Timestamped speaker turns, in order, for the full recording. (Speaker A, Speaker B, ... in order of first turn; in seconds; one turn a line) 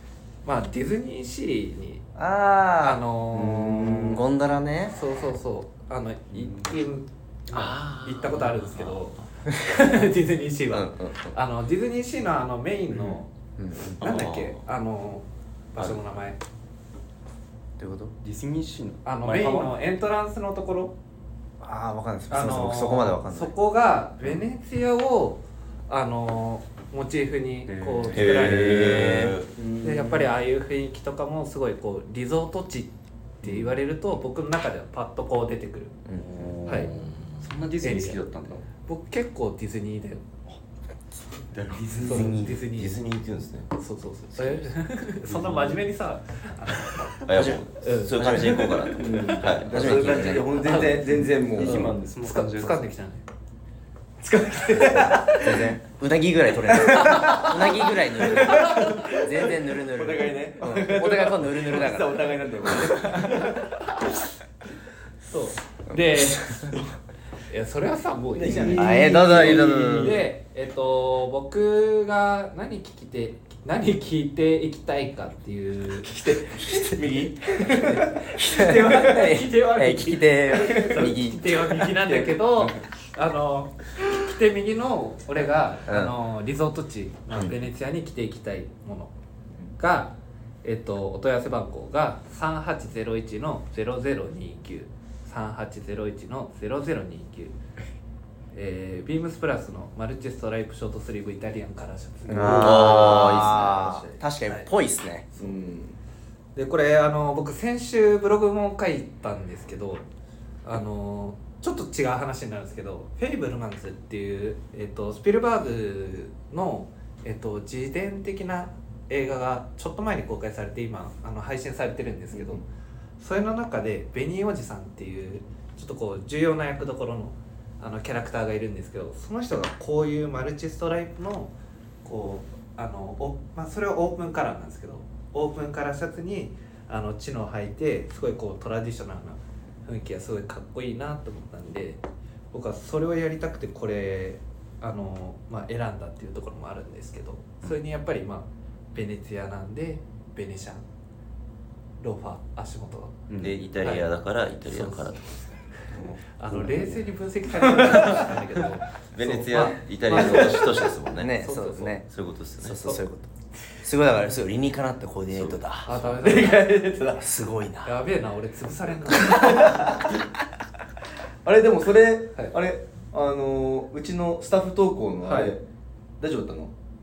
Speaker A: 0.4-2.0
Speaker B: 2.1-4.9
Speaker A: 2.8-4.1
Speaker A: 4.9-13.3
Speaker C: 6.5-6.7
Speaker D: 7.5-8.9
Speaker B: 10.7-11.3
Speaker B: 13.6-14.0
Speaker A: 14.0-16.4
Speaker D: 14.0-14.6
Speaker B: 17.8-18.1
Speaker C: 18.2-19.8
Speaker A: 19.0-20.9
Speaker B: 21.6-23.5
Speaker A: 22.3-36.0
Speaker C: 27.6-29.3
Speaker D: 28.1-29.5
Speaker E: 29.6-30.3
Speaker C: 36.1-38.7
Speaker A: 36.6-36.9
Speaker D: 36.9-37.3
Speaker A: 37.8-38.2
Speaker A: 38.8-40.2
Speaker C: 41.5-42.4
Speaker A: 42.0-43.0
Speaker B: 42.1-42.6
Speaker D: 42.1-43.7
Speaker A: 43.7-48.7
Speaker C: 45.3-45.8
Speaker D: 47.2-50.3
Speaker E: 48.9-51.9
Speaker B: 49.6-50.9
Speaker A: 50.5-53.2
Speaker C: 51.5-52.9
Speaker E: 54.2-55.6
Speaker B: 55.2-63.2
Speaker E: 56.7-63.7
Speaker A: 65.3-66.7
Speaker A: 67.5-76.8
Speaker E: 68.4-69.8
Speaker C: 68.5-69.0
Speaker B: 68.7-70.2
Speaker C: 69.7-70.0
Speaker E: 76.0-78.2
Speaker B: 77.8-81.6
Speaker A: 78.3-89.1
Speaker E: 80.7-81.1
Speaker E: 81.7-82.7
Speaker B: 85.9-86.2
Speaker A: 89.8-97.6
Speaker A: 98.5-102.9
Speaker B: 102.3-105.3
Speaker E: 102.4-104.2
Speaker D: 102.5-103.5
Speaker E: 105.4-106.0
Speaker A: 106.5-110.0
Speaker A: 110.6-122.6
Speaker E: 122.3-122.6
Speaker A: 123.2-131.5
Speaker A: 132.0-150.8
Speaker A: 152.0-153.2
Speaker C: 153.3-153.7
Speaker D: 153.4-155.3
Speaker A: 153.8-154.1
Speaker A: 154.6-160.8
Speaker E: 157.6-158.4
Speaker D: 159.1-161.3
Speaker E: 160.2-160.5
Speaker B: 161.2-162.1
Speaker A: 161.4-162.0
Speaker D: 162.1-162.8
Speaker B: 162.6-163.3
Speaker B: 163.8-165.9
Speaker D: 165.3-166.1
Speaker A: 165.8-166.8
Speaker E: 166.2-167.3
Speaker B: 167.2-167.9
Speaker A: 167.8-169.8
Speaker E: 169.2-170.2
Speaker E: 171.4-175.6
Speaker A: 175.2-175.5
Speaker E: 176.2-176.7